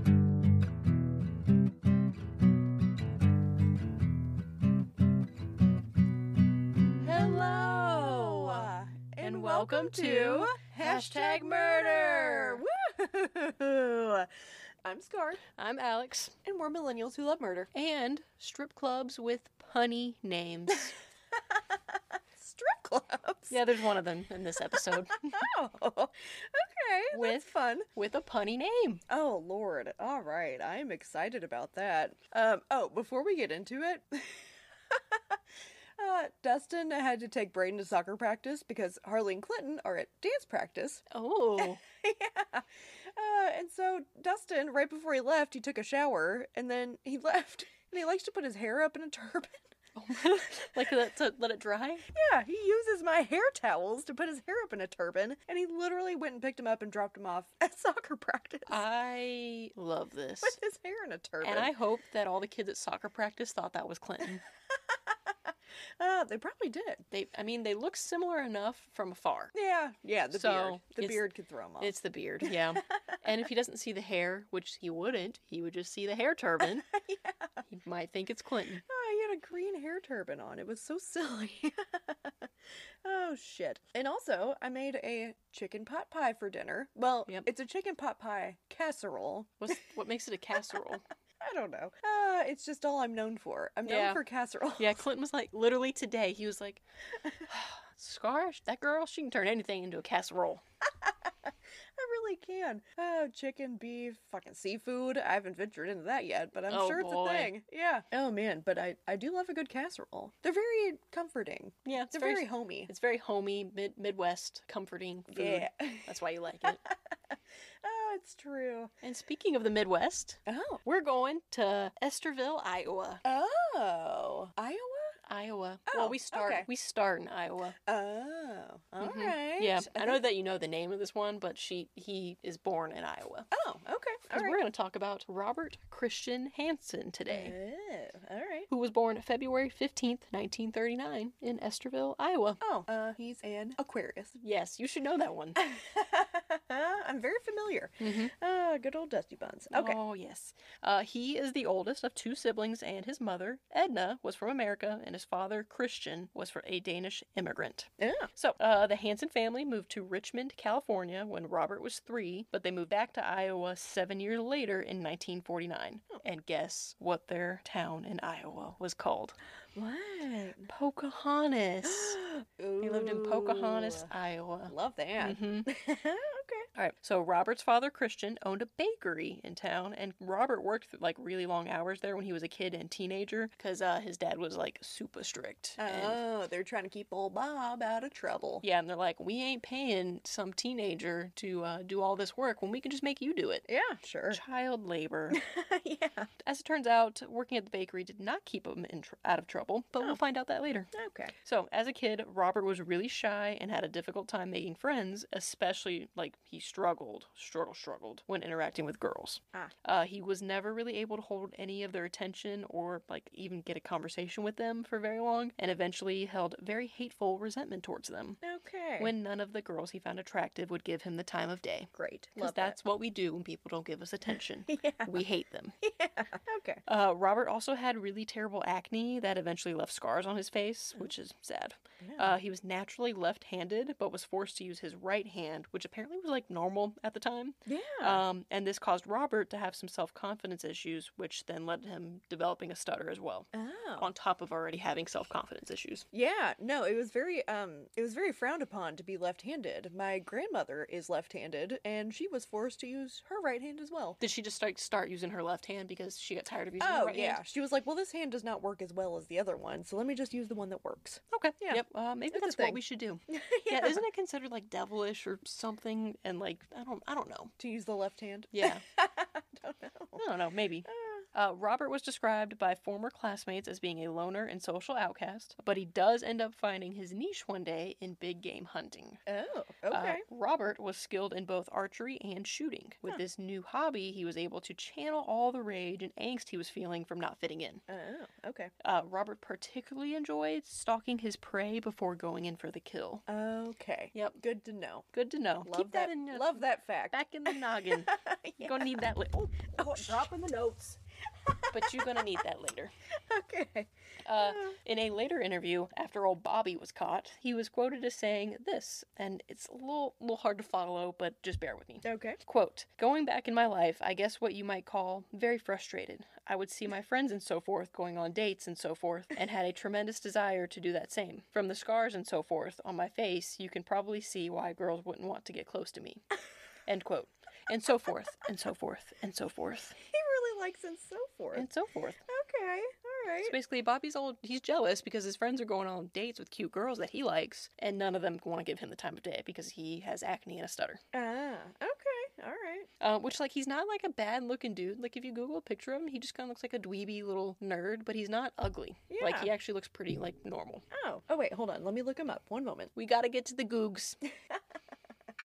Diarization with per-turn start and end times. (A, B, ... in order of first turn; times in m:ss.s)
0:07.0-0:12.6 A
0:07.0-0:14.3 B
0:14.8-0:15.4 B
0:15.6-0:16.4 A
0:16.4-0:17.7 B
0:17.7-0:21.0 A
0:21.4-0:21.8 B
0:22.3-0:23.6 B
0:23.5-0:25.5 A
0:25.2-0:27.9 B
0:27.1-0:29.0 A
0:29.1-0:35.4 B
0:36.0-0:41.1 B
0:41.1-0:41.8 A
0:41.6-0:49.7 B
0:50.0-0:52.1 A
0:52.1-0:58.8 B
0:58.7-1:00.6 A
1:00.4-1:01.7 B
1:01.4-1:04.4 A
1:06.0-1:07.0 B
1:07.1-1:09.5 A
1:09.5-1:11.9 B
1:10.3-1:11.2 A
1:11.8-1:16.9 A
1:12.4-1:13.2 B
1:16.8-1:17.6 B
1:17.7-1:18.8 A
1:18.8-1:22.5 B
1:23.0-1:29.8 B
1:29.6-1:31.0 A
1:31.4-1:35.0 B
1:33.8-1:34.2 A
1:34.8-1:36.8 A
1:37.4-1:40.6 A
1:41.0-1:52.9 B
1:46.7-1:47.6 A
1:51.8-1:56.8 A
1:55.3-1:58.9 B
1:59.0-2:03.2 A
2:00.5-2:00.8 B
2:03.2-2:05.2 B
2:05.3-2:07.8 A
2:05.9-2:06.7 B
2:07.9-2:10.2 B
2:09.0-2:13.5 A
2:13.5-2:14.6 B
2:14.3-2:17.6 A
2:17.3-2:18.7 B
2:18.7-2:22.6 A
2:22.6-2:24.4 B
2:24.4-2:25.6 A
2:25.6-2:30.0 B
2:28.0-2:28.3 A
2:29.7-2:49.4 A
2:38.0-2:38.3 B
2:49.8-2:50.7 B
2:50.7-2:52.2 A
2:51.8-2:54.1 B
2:52.8-2:55.7 A
2:54.7-2:56.7 B
2:56.8-3:06.2 A
3:05.8-3:08.6 B
3:08.6-3:13.6 A
3:13.7-3:14.4 B
3:14.3-3:15.4 A
3:15.3-3:16.3 B
3:16.4-3:20.9 A
3:20.9-3:21.3 B
3:21.4-3:38.4 A
3:38.4-3:39.1 B
3:39.0-3:45.8 A
3:41.9-3:42.8 B
3:44.7-3:45.1 B
3:45.8-3:46.8 B
3:46.9-4:06.1 A
3:52.0-3:52.4 B
3:57.7-3:58.2 B
4:03.5-4:04.1 B
4:06.1-4:14.2 B
4:14.2-4:17.4 A
4:16.8-4:24.0 B
4:21.3-4:27.5 A
4:27.6-4:30.2 B
4:28.5-4:28.8 A
4:30.2-4:39.2 A
4:30.9-4:31.3 B
4:39.3-4:40.2 B
4:39.9-4:47.8 A
4:47.9-4:48.7 B
4:48.8-4:53.2 A
4:53.3-4:55.1 B
4:54.1-4:54.4 A
4:55.1-5:01.0 A
4:55.6-4:58.9 B
4:59.7-5:00.2 B
5:01.5-5:02.2 B
5:01.7-5:02.9 A
5:03.1-5:04.8 B
5:04.2-5:26.2 A
5:12.0-5:12.4 B
5:26.9-5:30.0 A
5:30.0-5:31.7 B
5:31.5-5:32.2 A
5:32.3-5:33.5 B
5:33.4-5:41.0 A
5:41.1-5:42.9 B
5:43.0-5:50.8 A
5:49.1-5:49.5 B
5:50.9-5:52.9 B
5:53.0-5:54.2 A